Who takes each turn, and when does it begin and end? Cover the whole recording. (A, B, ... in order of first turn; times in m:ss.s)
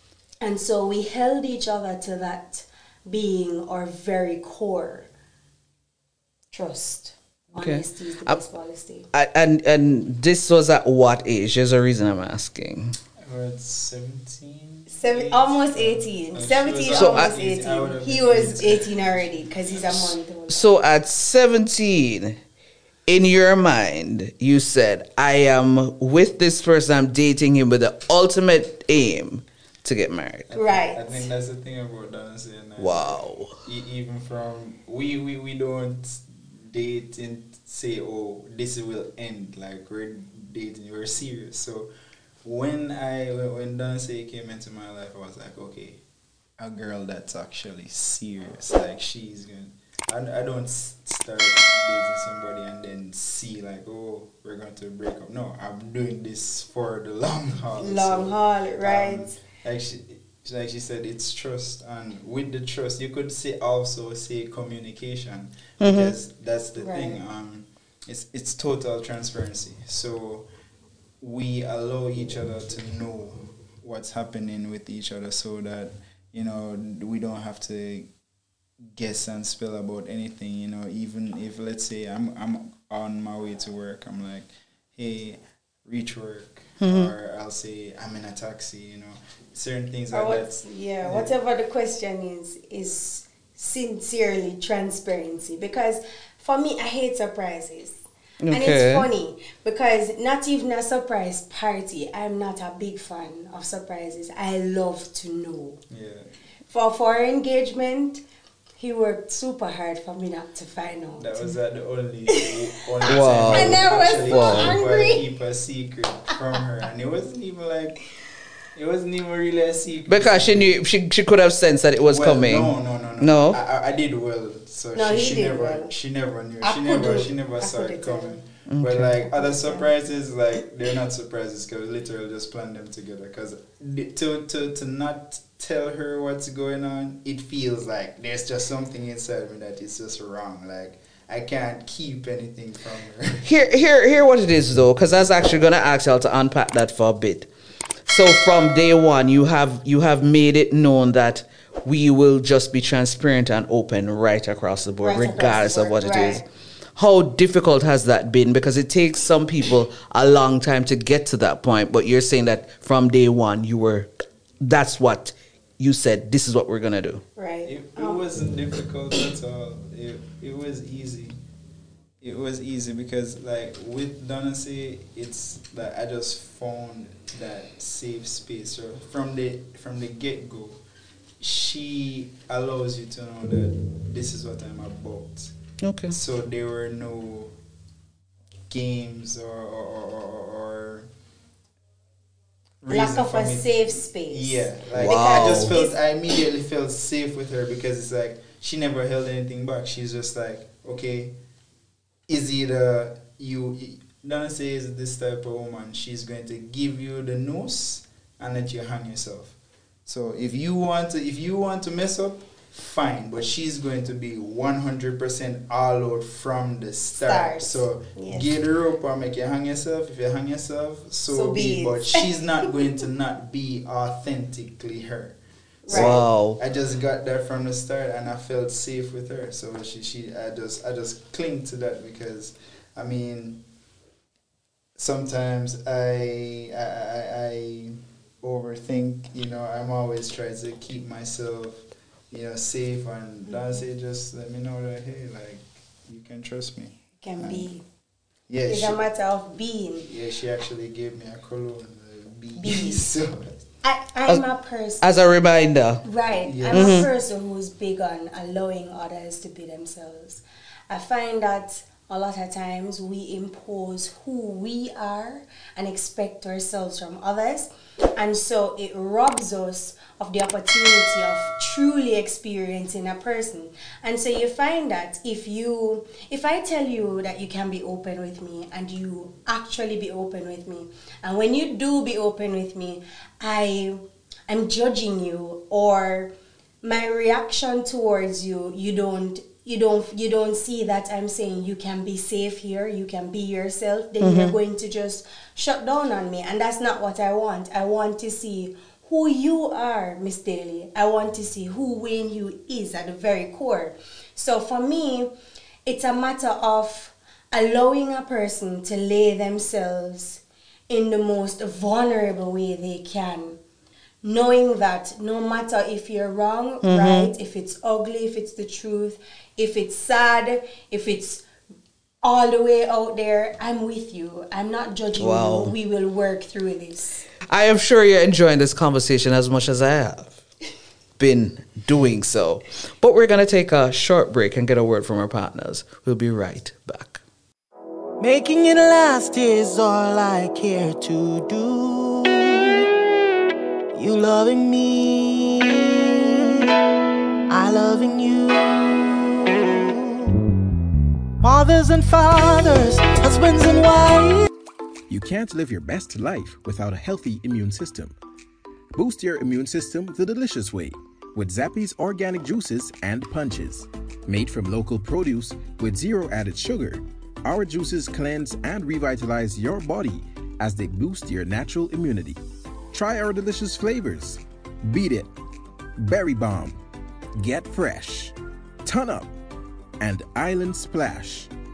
0:00.4-0:05.1 A
0:06.5-0:09.1 A
0:07.6-0:08.4 B
0:09.1-0:13.0 B
0:13.2-0:20.2 C
0:14.9-0:20.8 A
0:16.9-0:17.4 B
0:20.5-0:22.4 B
0:23.1-0:30.5 B
0:30.5-0:41.9 C
0:30.5-0:31.3 A
0:32.8-0:33.5 B
0:42.4-0:46.0 C
0:46.6-1:10.5 C
0:57.8-0:59.4 A
1:05.8-1:06.2 B
1:06.8-1:07.2 A
1:11.2-1:18.1 C
1:19.0-1:31.4 C
1:26.8-1:27.1 B
1:30.1-1:45.8 A
1:38.4-1:39.1 B
1:45.9-1:46.3 C
1:46.7-1:48.2 A
1:48.8-1:51.5 A
1:51.2-1:58.0 C
1:53.1-1:54.8 B
1:53.2-1:55.2 A
1:58.8-2:00.8 C
2:00.1-2:03.6 B
2:02.1-2:23.5 C
2:04.9-2:05.9 A
2:06.6-2:08.4 A
2:08.7-2:09.1 B
2:09.3-2:09.9 A
2:23.4-2:27.5 B
2:28.1-2:36.4 B
2:35.0-2:36.5 A
2:37.0-2:44.1 B
2:44.6-2:47.2 B
2:47.4-2:48.3 A
2:47.6-2:51.4 C
2:52.2-3:00.8 C
3:01.4-3:05.5 C
3:05.8-3:06.2 B
3:06.1-3:07.5 C
3:08.7-3:11.1 C
3:12.8-3:21.4 C
3:12.9-3:16.4 A
3:15.0-3:15.8 B
3:22.3-3:29.6 C
3:30.1-3:45.4 C
3:37.2-3:38.6 A
3:41.3-3:42.2 A
3:45.8-3:46.2 A
3:45.9-3:53.6 C
3:45.9-3:46.6 B
3:55.0-4:07.7 C
4:03.5-4:03.8 A
4:07.2-4:07.8 A
4:08.5-4:09.1 C
4:08.7-4:10.1 A
4:10.0-4:13.6 C
4:12.6-4:13.1 A
4:13.8-4:15.0 A
4:15.0-4:16.0 B
4:16.0-5:05.3 A
4:16.4-4:17.1 C
4:16.7-4:17.1 B
4:54.2-4:54.6 B
5:05.8-5:13.6 A
5:14.2-5:21.4 A
5:16.8-5:17.3 B
5:22.2-5:27.3 A
5:25.2-5:25.8 B
5:27.5-5:30.4 B
5:31.2-5:37.2 B
5:38.2-5:42.8 D
5:43.9-5:46.0 D
5:47.5-5:50.3 D
5:51.4-5:54.5 D
5:55.1-5:58.2 E
5:59.0-6:12.4 E
6:12.9-6:15.3 E
6:16.0-6:16.8 E
6:17.4-6:19.4 E
6:20.0-6:21.5 E